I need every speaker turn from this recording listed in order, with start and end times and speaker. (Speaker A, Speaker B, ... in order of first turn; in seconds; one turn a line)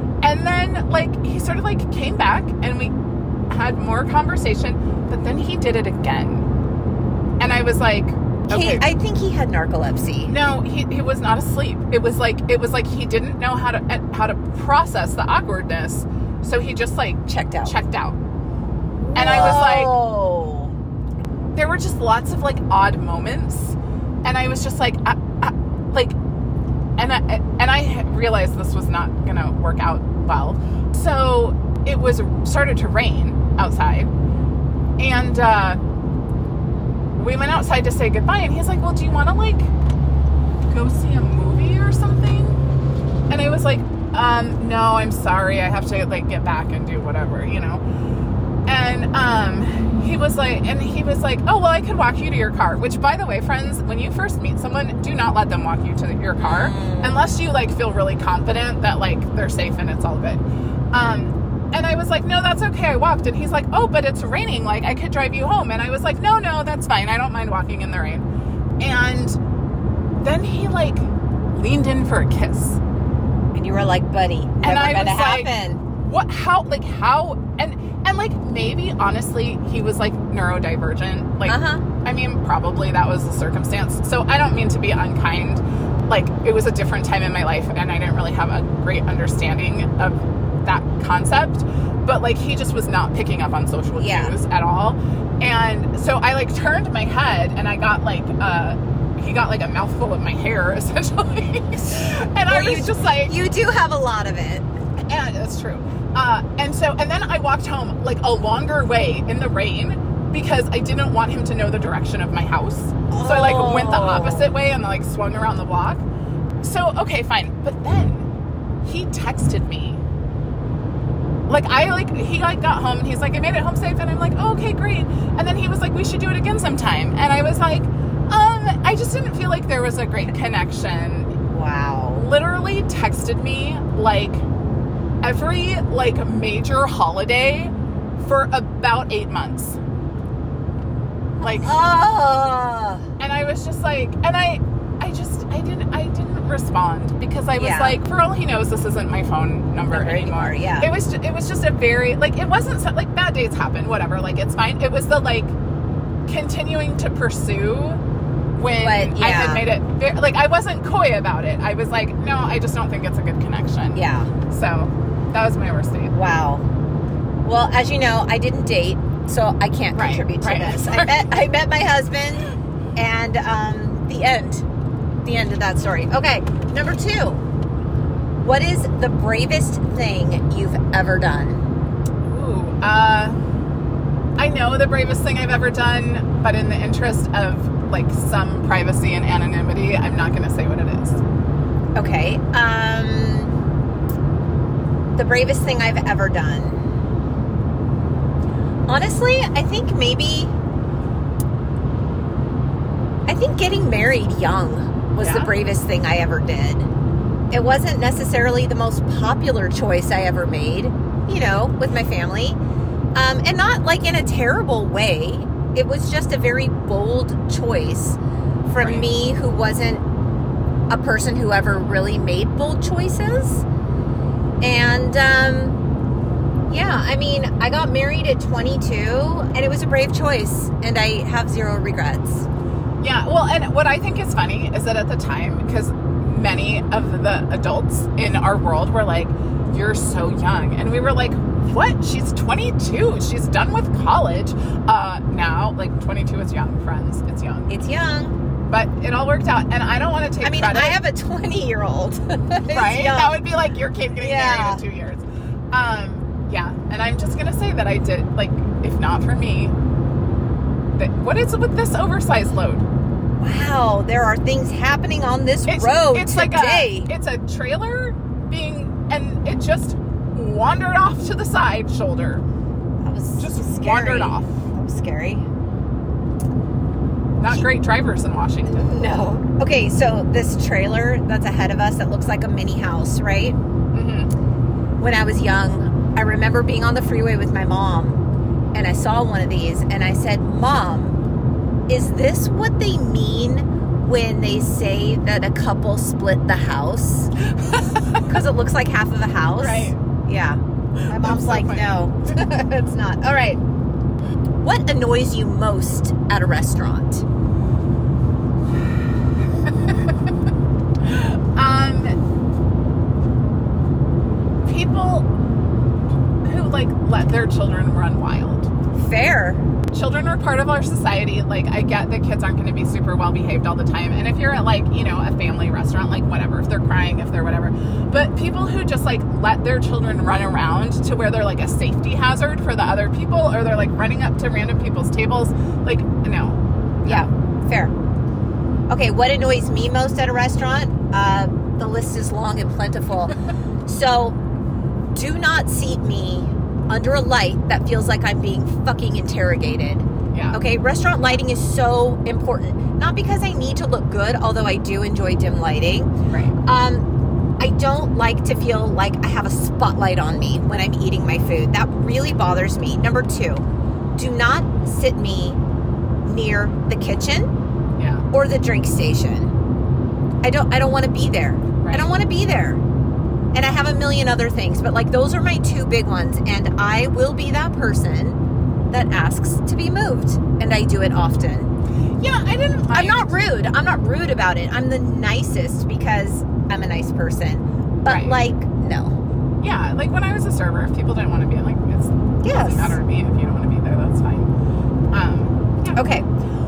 Speaker A: 0.2-2.9
Speaker A: 3.5-6.5
Speaker A: 7.4-8.8
Speaker B: 8.5-10.3
Speaker A: 10.3-18.2
Speaker B: 17.3-17.8
Speaker B: 19.0-20.7
Speaker A: 19.1-20.0
Speaker A: 21.5-26.2
Speaker A: 27.0-34.1
Speaker A: 35.0-35.8
Speaker A: 37.1-39.7
Speaker A: 40.7-42.6
Speaker A: 43.3-47.8
Speaker A: 48.7-68.2
Speaker B: 56.4-57.2
Speaker A: 68.8-69.4
Speaker A: 70.2-72.8
Speaker B: 73.5-75.8
Speaker A: 74.6-103.4
Speaker B: 81.4-81.8
Speaker B: 94.0-94.3
Speaker B: 102.4-104.7
Speaker A: 105.1-116.0
Speaker B: 113.1-114.5
Speaker A: 116.6-118.3
Speaker A: 118.8-120.0
Speaker A: 121.5-131.3
Speaker B: 131.5-132.3
Speaker A: 132.2-134.4
Speaker A: 135.2-139.8
Speaker B: 141.4-143.1
Speaker A: 141.4-141.7
Speaker A: 143.2-155.6
Speaker B: 147.6-148.0
Speaker B: 149.9-150.9
Speaker A: 156.2-158.0
Speaker A: 158.6-166.1
Speaker B: 158.8-159.7
Speaker B: 163.9-164.3
Speaker B: 166.1-166.7
Speaker B: 167.4-174.6
Speaker A: 169.9-171.2
Speaker B: 175.2-177.4
Speaker B: 178.4-181.7
Speaker A: 182.3-183.4
Speaker A: 184.4-191.2
Speaker B: 191.9-193.5
Speaker B: 195.1-196.8
Speaker B: 198.9-200.5
Speaker B: 203.3-206.9
Speaker A: 205.2-205.5
Speaker B: 207.5-212.6
Speaker B: 213.1-220.0
Speaker A: 218.8-219.1
Speaker B: 220.9-223.6
Speaker B: 224.6-225.8
Speaker B: 226.7-232.5
Speaker A: 233.0-247.7
Speaker B: 247.7-248.3
Speaker A: 248.7-251.0
Speaker B: 250.4-253.4
Speaker A: 252.7-259.7
Speaker B: 254.2-254.8
Speaker A: 260.9-262.8
Speaker B: 263.4-267.1
Speaker A: 265.7-272.4
Speaker B: 273.0-275.4
Speaker A: 273.4-274.6
Speaker A: 277.4-279.1
Speaker B: 278.7-283.6
Speaker A: 283.9-284.3
Speaker B: 285.0-288.2
Speaker B: 288.7-291.2
Speaker B: 291.9-297.3
Speaker A: 297.5-298.2
Speaker B: 298.1-303.6
Speaker A: 299.6-300.0
Speaker A: 301.1-302.3
Speaker B: 304.6-307.2
Speaker A: 309.4-310.3
Speaker A: 311.0-312.1
Speaker A: 314.6-315.3
Speaker A: 316.4-318.7
Speaker B: 318.9-319.6
Speaker A: 319.9-337.3
Speaker B: 337.1-337.9
Speaker B: 338.9-344.4
Speaker B: 345.1-356.1
Speaker A: 350.3-350.6
Speaker B: 356.6-357.1
Speaker B: 357.6-363.6
Speaker B: 364.2-365.6
Speaker B: 366.2-367.5
Speaker A: 368.0-368.2
Speaker B: 368.3-369.5
Speaker B: 370.4-372.8
Speaker A: 371.8-372.1
Speaker B: 373.5-378.4
Speaker B: 378.9-381.7
Speaker A: 382.2-383.3
Speaker B: 382.9-389.1
Speaker A: 388.1-388.4
Speaker A: 389.6-394.5
Speaker B: 392.4-393.0
Speaker A: 395.1-396.0
Speaker B: 395.9-396.3